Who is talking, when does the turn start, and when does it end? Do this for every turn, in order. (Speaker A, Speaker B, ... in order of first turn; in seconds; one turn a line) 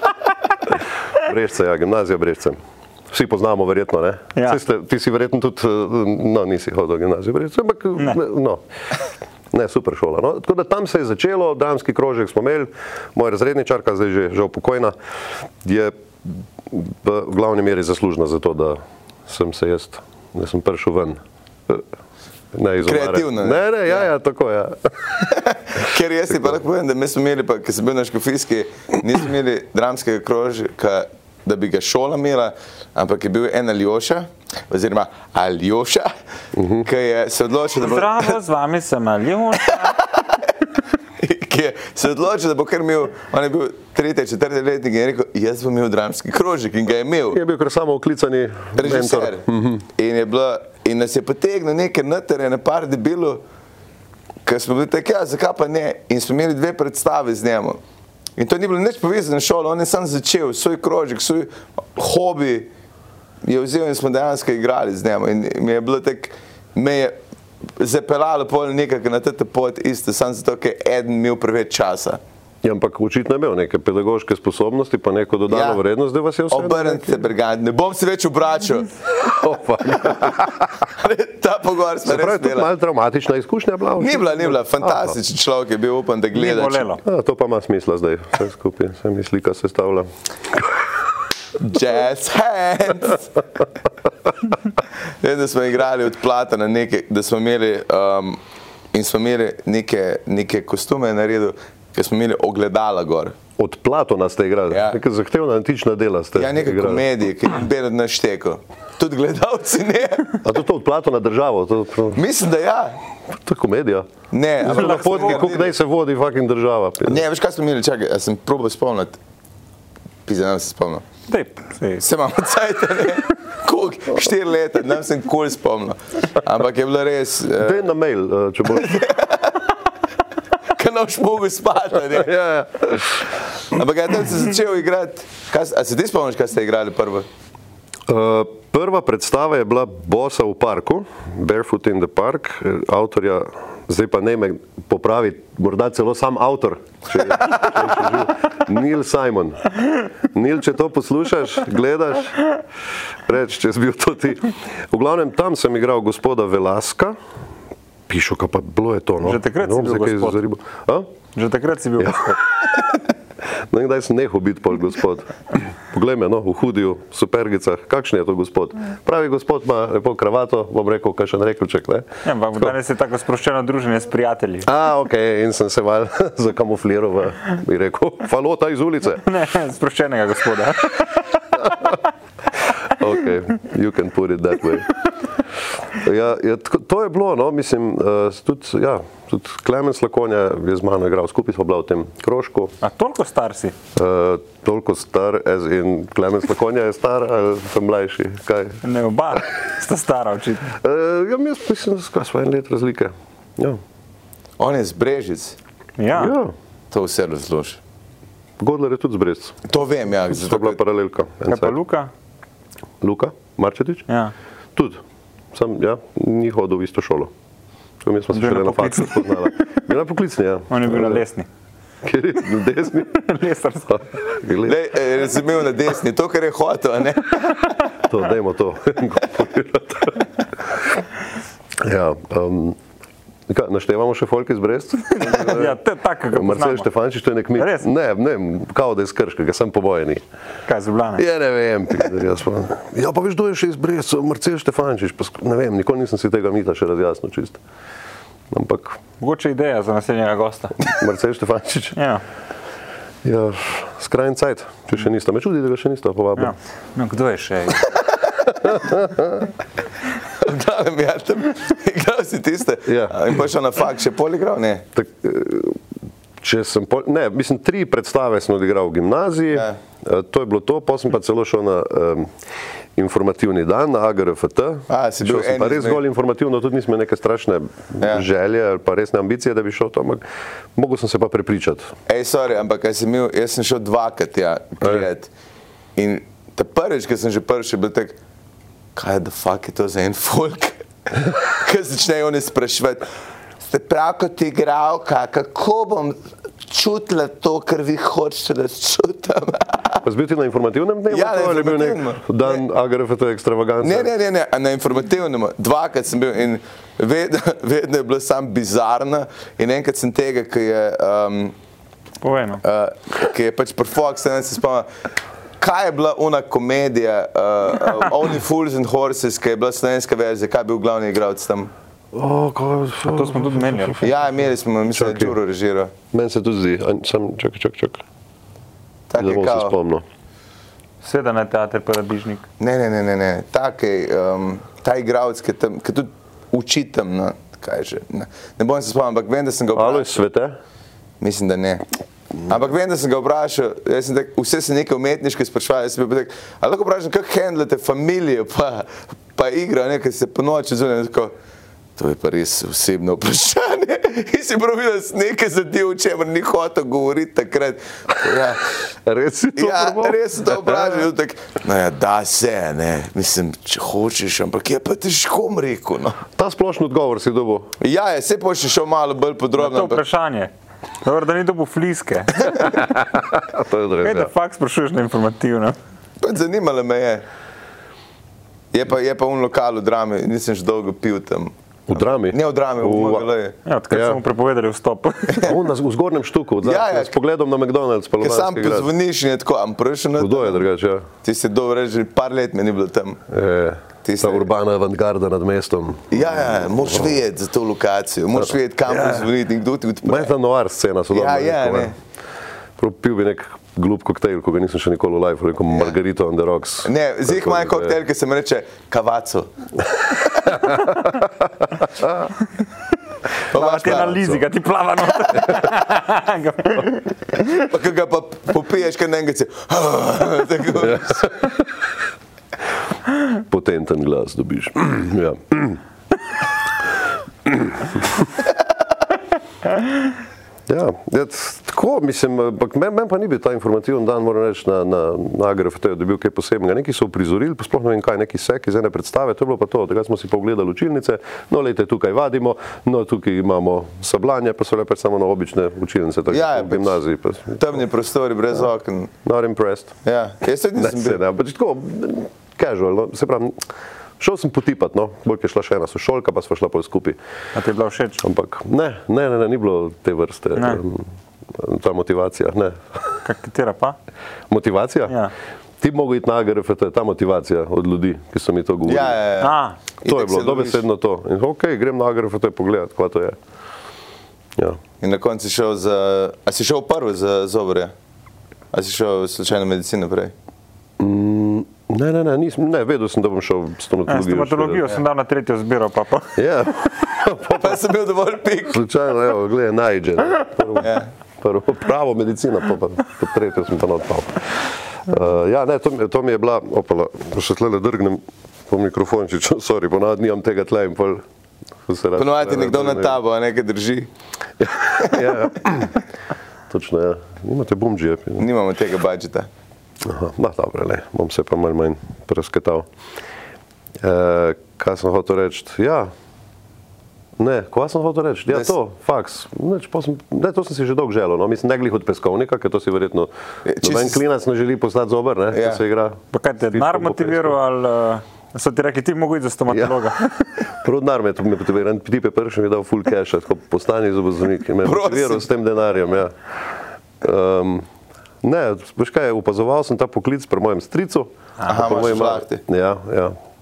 Speaker A: 0.7-2.6
Speaker A: 3.1-8.6
Speaker A: 9.5-14.9
Speaker A: 15.6-21.8
Speaker A: 22.5-25.1
Speaker B: 22.8-24.1
Speaker B: 25.2-36.1
Speaker A: 36.5-36.9
Speaker B: 36.8-38.3
Speaker C: 37.8-40.0
Speaker B: 39.6-40.4
Speaker B: 41.2-47.4
Speaker A: 47.3-49.8
Speaker B: 48.8-53.4
Speaker B: 54.5-57.8
Speaker B: 58.4-62.7
Speaker B: 63.4-67.1
Speaker B: 67.8-72.2
Speaker A: 72.6-77.3
Speaker B: 75.5-75.8
Speaker B: 76.5-78.9
Speaker A: 79.1-80.7
Speaker B: 80.0-82.7
Speaker A: 82.0-85.2
Speaker B: 84.0-86.9
Speaker C: 86.3-87.0
Speaker A: 87.0-90.8
Speaker B: 91.6-93.4
Speaker B: 95.2-98.4
Speaker B: 98.9-103.3
Speaker A: 103.6-107.0
Speaker B: 104.7-105.0
Speaker B: 106.3-110.4
Speaker A: 110.4-112.2
Speaker B: 112.1-113.0
Speaker A: 113.4-114.1
Speaker B: 114.3-115.7
Speaker A: 114.6-117.2
Speaker C: 114.7-115.5
Speaker B: 117.0-119.2
Speaker B: 120.2-121.0
Speaker C: 121.3-122.0
Speaker B: 122.0-127.9
Speaker A: 127.6-129.1
Speaker B: 128.7-129.6
Speaker B: 130.7-132.3
Speaker A: 132.1-133.2
Speaker B: 133.6-137.2
Speaker A: 138.1-152.5
Speaker A: 153.2-157.2
Speaker A: 158.1-161.1
Speaker C: 159.2-160.4
Speaker C: 161.3-162.2
Speaker A: 162.0-163.1
Speaker A: 163.7-172.1
Speaker C: 172.2-174.7
Speaker A: 174.6-179.2
Speaker C: 179.2-181.7
Speaker A: 181.6-181.9
Speaker A: 182.8-185.0
Speaker A: 185.9-192.7
Speaker C: 192.8-193.7
Speaker A: 193.9-198.8
Speaker C: 198.8-200.7
Speaker A: 200.7-203.8
Speaker B: 204.6-205.6
Speaker C: 206.0-206.3
Speaker A: 206.1-206.5
Speaker B: 206.9-207.8
Speaker A: 208.6-209.6
Speaker B: 209.7-210.8
Speaker A: 210.3-211.8
Speaker C: 211.5-212.1
Speaker A: 213.0-214.1
Speaker C: 214.1-214.3
Speaker A: 214.7-215.0
Speaker A: 215.5-217.3
Speaker A: 218.0-221.2
Speaker C: 218.3-219.5
Speaker C: 220.7-221.5
Speaker A: 222.0-223.2
Speaker C: 223.1-224.1
Speaker A: 223.9-224.8
Speaker B: 224.6-227.8
Speaker A: 228.1-231.0
Speaker A: 231.8-232.8
Speaker A: 233.5-235.8
Speaker C: 235.2-236.9
Speaker A: 236.3-240.2
Speaker C: 237.6-237.8
Speaker C: 240.7-241.2
Speaker A: 241.2-247.6
Speaker A: 248.5-249.0
Speaker C: 249.2-250.9
Speaker A: 250.8-252.0
Speaker C: 252.0-252.2
Speaker A: 253.2-256.5
Speaker C: 256.4-257.9
Speaker B: 257.9-258.5
Speaker A: 258.6-259.5
Speaker B: 260.3-264.9
Speaker A: 262.9-263.2
Speaker A: 264.9-265.8
Speaker A: 266.4-272.3
Speaker B: 269.5-269.8
Speaker A: 272.9-280.2
Speaker B: 274.9-276.0
Speaker B: 278.0-278.2
Speaker A: 280.7-281.9
Speaker B: 282.1-285.3
Speaker B: 285.9-288.2
Speaker B: 288.9-293.1
Speaker B: 293.6-300.0
Speaker A: 300.0-304.1
Speaker B: 301.1-302.6
Speaker B: 303.8-311.5
Speaker C: 312.2-312.6
Speaker B: 312.6-314.9
Speaker B: 315.6-321.7
Speaker A: 322.1-324.1
Speaker C: 323.1-324.0
Speaker B: 324.0-325.9
Speaker A: 324.9-325.3
Speaker A: 326.1-328.0
Speaker B: 329.1-329.8
Speaker A: 329.2-330.0
Speaker C: 331.0-332.4
Speaker B: 332.6-340.2
Speaker A: 339.7-340.5
Speaker B: 341.2-341.8
Speaker B: 342.5-351.3
Speaker B: 352.0-358.8
Speaker A: 359.0-361.1
Speaker B: 359.5-366.2
Speaker A: 366.4-367.7
Speaker B: 367.8-370.0
Speaker C: 369.6-370.5
Speaker C: 371.0-372.8
Speaker A: 372.7-374.3
Speaker C: 374.0-375.8
Speaker B: 376.2-377.2
Speaker B: 378.7-381.5
Speaker A: 381.9-383.3
Speaker B: 382.2-383.5
Speaker C: 383.6-385.6
Speaker A: 383.9-384.2
Speaker A: 385.4-388.9
Speaker B: 386.6-387.1
Speaker B: 388.2-390.6
Speaker A: 390.2-391.0
Speaker B: 391.2-393.2
Speaker A: 393.3-397.1
Speaker B: 394.0-394.5
Speaker B: 396.1-400.3
Speaker A: 398.4-399.3
Speaker A: 400.0-401.9
Speaker B: 401.1-401.9
Speaker A: 402.8-408.0
Speaker B: 406.8-409.5
Speaker B: 410.0-410.8
Speaker A: 410.6-411.3
Speaker A: 412.0-412.3
Speaker B: 413.5-414.2
Speaker C: 413.5-417.5
Speaker A: 413.8-414.4
Speaker B: 417.5-421.4
Speaker A: 420.8-421.6
Speaker A: 423.3-425.8
Speaker A: 427.4-428.2
Speaker A: 430.7-447.6
Speaker B: 446.3-447.0
Speaker B: 447.5-449.1
Speaker A: 449.2-449.9
Speaker B: 450.0-451.2
Speaker A: 450.8-453.6
Speaker A: 454.2-457.2
Speaker C: 457.5-458.2
Speaker A: 458.2-463.2
Speaker C: 463.2-463.9
Speaker A: 464.5-465.2
Speaker A: 465.8-469.2
Speaker B: 468.9-470.8
Speaker C: 469.4-469.8
Speaker A: 470.1-473.4
Speaker B: 475.0-477.9
Speaker B: 478.7-480.3
Speaker A: 481.0-484.9
Speaker C: 484.1-486.4
Speaker A: 486.4-487.8
Speaker B: 487.5-488.8
Speaker A: 488.7-501.2
Speaker B: 490.8-491.1
Speaker A: 501.9-503.2
Speaker B: 502.1-504.1
Speaker A: 504.6-506.0
Speaker B: 504.9-505.3
Speaker A: 506.7-508.4
Speaker B: 508.4-509.5
Speaker A: 510.0-512.9
Speaker A: 514.0-516.1
Speaker A: 517.4-523.3
Speaker B: 523.6-524.2
Speaker A: 523.8-526.2
Speaker B: 525.5-525.8
Speaker C: 526.3-530.5
Speaker A: 526.7-527.5
Speaker A: 529.7-530.1
Speaker A: 530.8-536.3
Speaker B: 534.8-535.5
Speaker A: 537.2-537.9
Speaker A: 538.4-543.3
Speaker B: 541.6-542.6